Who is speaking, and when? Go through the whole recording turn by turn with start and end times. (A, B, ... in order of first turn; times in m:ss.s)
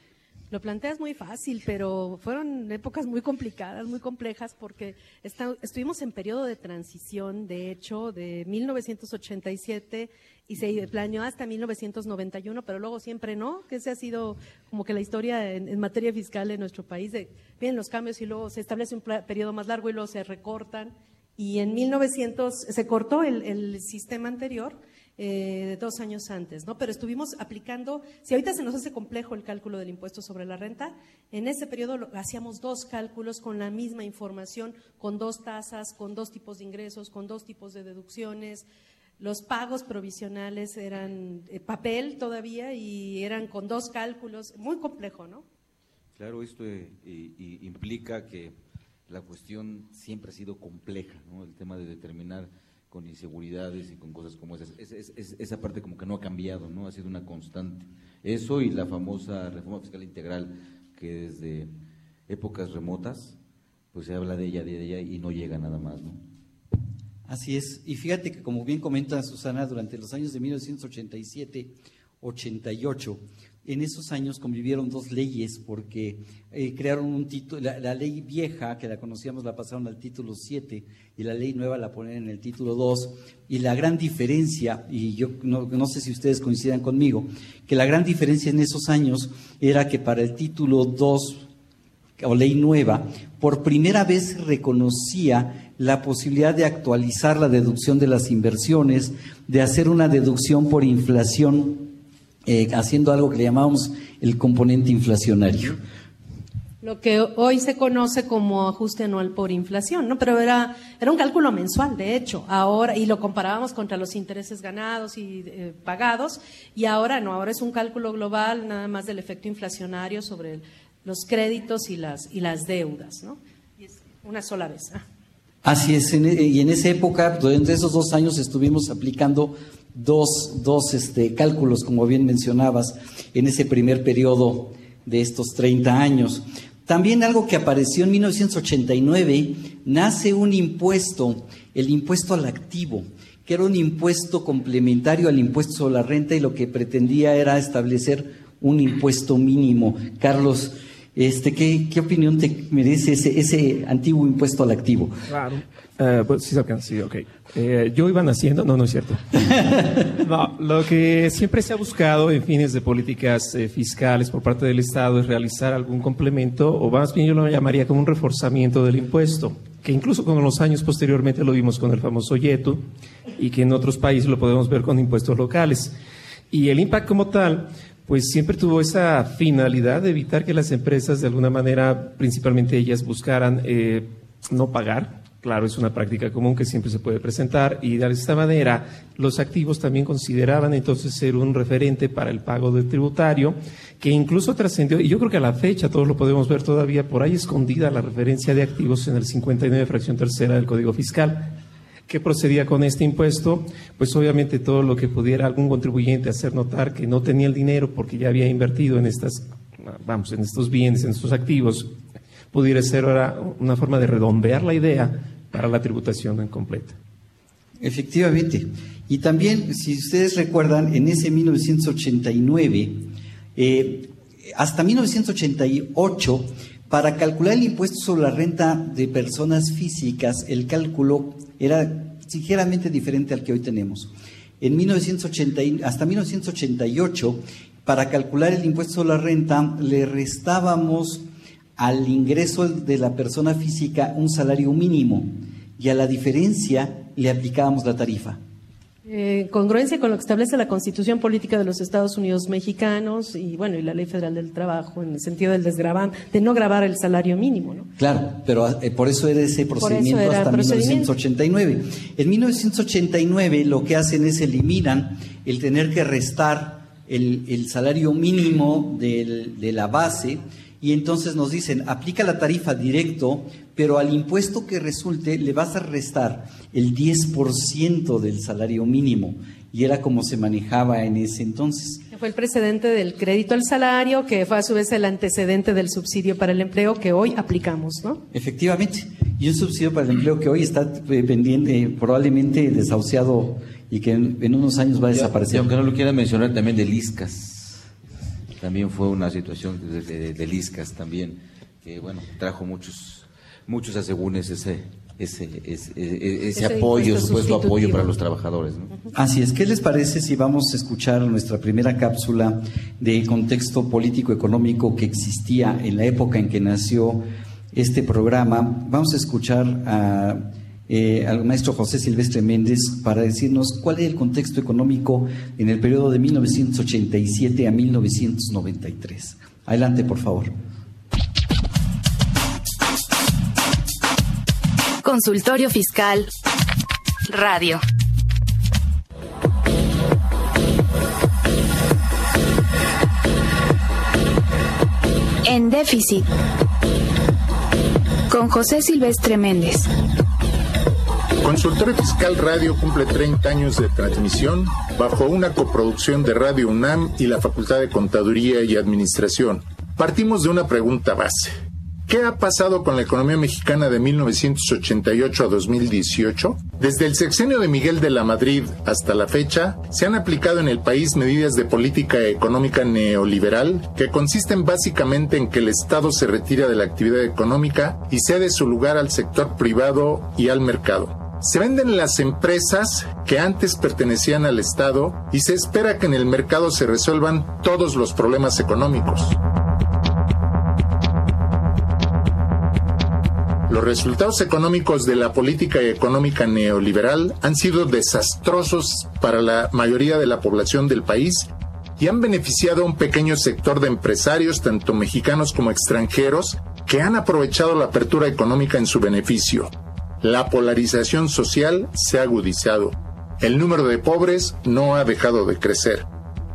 0:00.5-0:38.6 A
0:39.2-0:45.4 A
0:46.2-0:48.6 B
0:49.1-1:01.7 B
1:02.3-1:03.4 B
1:03.9-1:06.2 B
1:07.3-1:31.5 C
1:32.2-1:41.9 C
1:42.5-1:45.8 C
1:46.8-2:05.0 A
2:05.6-2:35.2 C
2:35.3-2:39.2 D
2:40.2-2:52.8 D
2:53.4-2:55.9 D
2:56.5-3:21.6 D
3:22.1-3:31.9 D
3:32.5-3:37.0 D
3:37.8-4:01.2 C
4:01.8-4:08.4 C
4:09.1-4:17.9 A
4:18.0-4:42.0 C
4:19.8-4:21.1 A
4:42.1-4:48.2 A
4:48.3-4:55.7 C
4:55.1-4:57.8 B
4:58.6-5:08.9 B
5:06.6-5:08.1 A
5:09.1-5:30.5 C
5:35.0-5:36.3 E
5:37.3-5:37.8 E
5:45.4-5:46.3 E
5:48.3-5:49.9 E
5:51.4-6:01.5 F
6:02.1-6:29.4 F
6:33.7-6:56.1 F